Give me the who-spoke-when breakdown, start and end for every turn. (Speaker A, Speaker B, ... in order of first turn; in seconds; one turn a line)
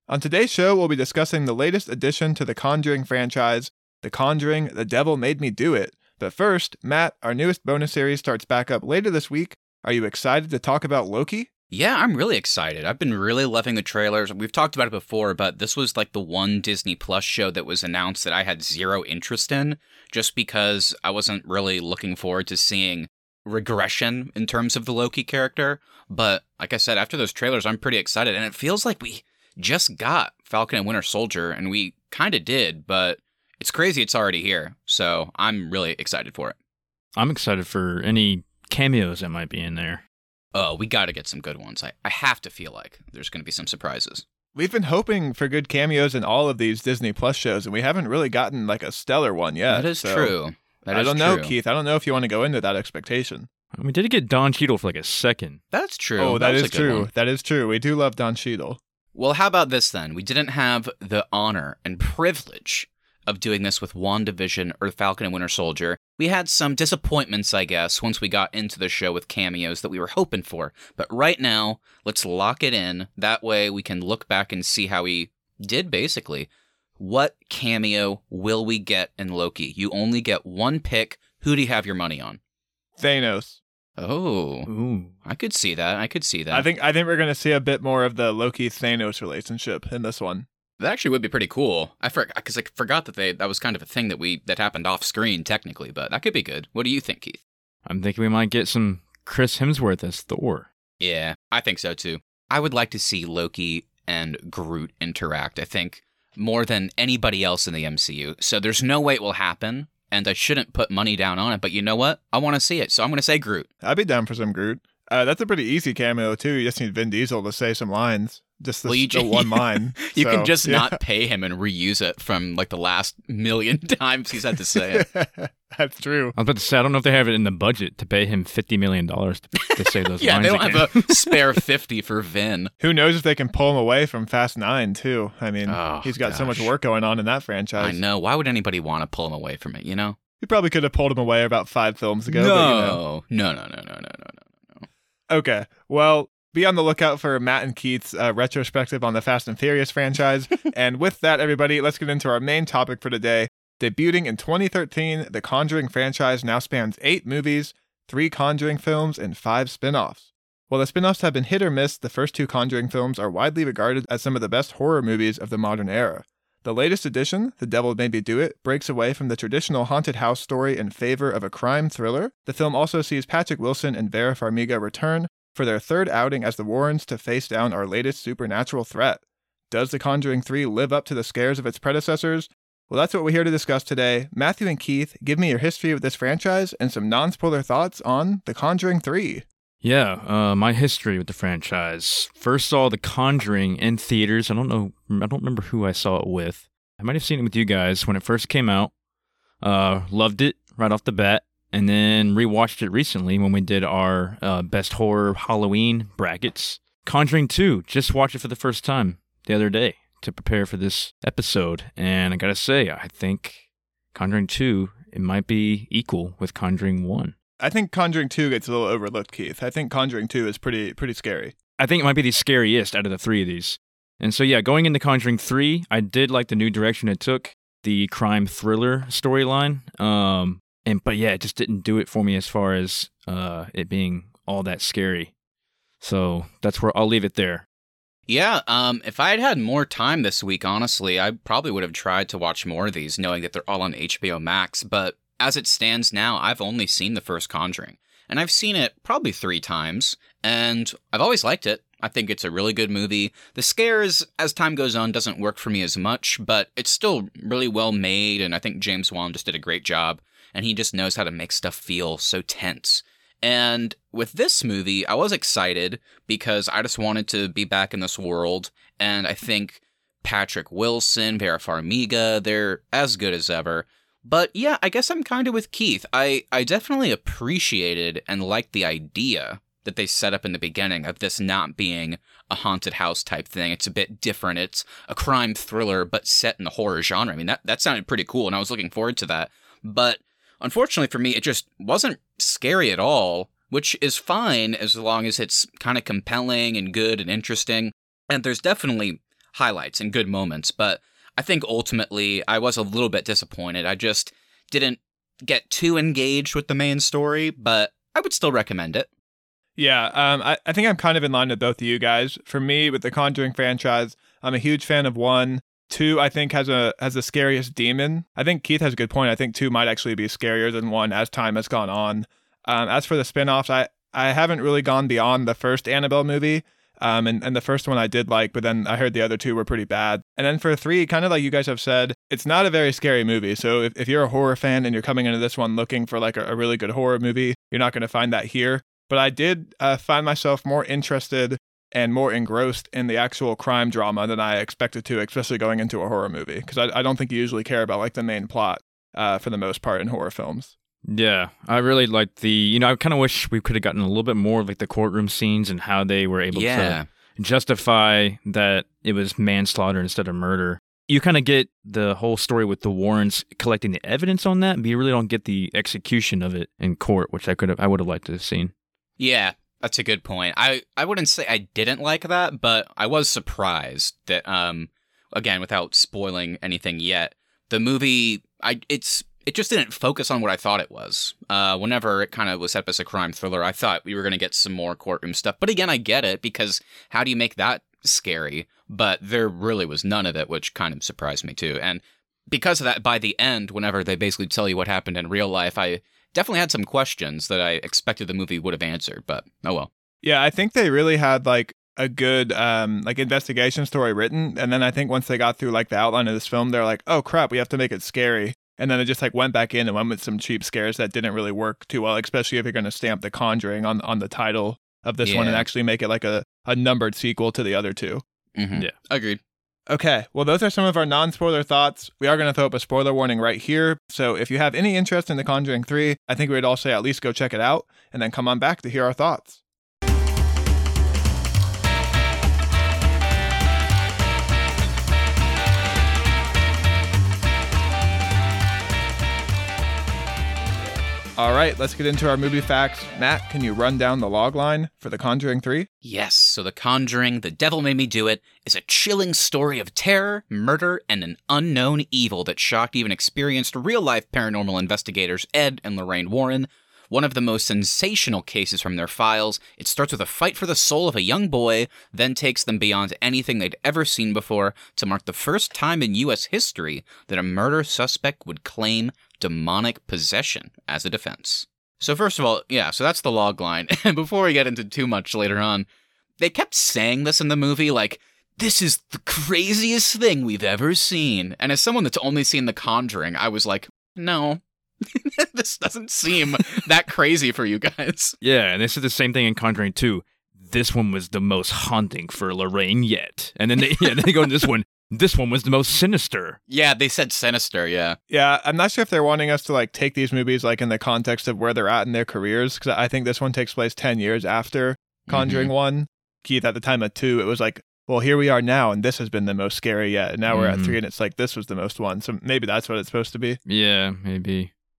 Speaker A: 0.1-11.5
Speaker B: 11.7-36.5
Speaker C: 37.2-40.0
Speaker B: 40.5-44.2
Speaker A: 44.5-50.3
Speaker B: 49.7-51.5
Speaker A: 50.9-53.5
Speaker C: 53.8-55.6
Speaker B: 55.7-57.1
Speaker A: 56.2-58.8
Speaker B: 59.1-82.4
Speaker A: 83.0-83.6
Speaker B: 84.0-84.7
Speaker C: 84.7-85.1
Speaker B: 85.2-86.7
Speaker A: 86.5-90.5
Speaker B: 90.8-97.4
Speaker C: 97.9-100.7
Speaker B: 101.0-113.7
Speaker A: 113.8-121.0
Speaker B: 118.9-125.1
Speaker A: 124.9-126.3
Speaker C: 126.4-131.6
Speaker B: 129.6-132.7
Speaker A: 132.8-138.0
Speaker B: 135.7-136.7
Speaker B: 137.8-140.2
Speaker A: 140.4-143.0
Speaker B: 142.3-144.9
Speaker A: 145.3-189.4
Speaker C: 189.8-198.9
Speaker C: 199.6-213.6
Speaker C: 214.1-217.3
Speaker A: 217.6-221.6
Speaker C: 221.8-235.3
Speaker C: 236.0-237.7
Speaker B: 238.3-309.1
Speaker A: 309.8-350.7
Speaker C: 351.1-368.7
Speaker B: 356.5-357.1
Speaker B: 369.2-399.9
Speaker A: 400.2-418.2
Speaker B: 415.2-415.7
Speaker B: 418.6-419.4
Speaker A: 419.9-429.6
Speaker A: 441.4-445.9
Speaker B: 446.0-475.9
Speaker B: 476.4-488.4
Speaker C: 488.4-496.6
Speaker B: 496.7-498.2
Speaker A: 498.3-513.6
Speaker B: 505.3-505.7
Speaker C: 510.5-511.0
Speaker C: 513.7-514.7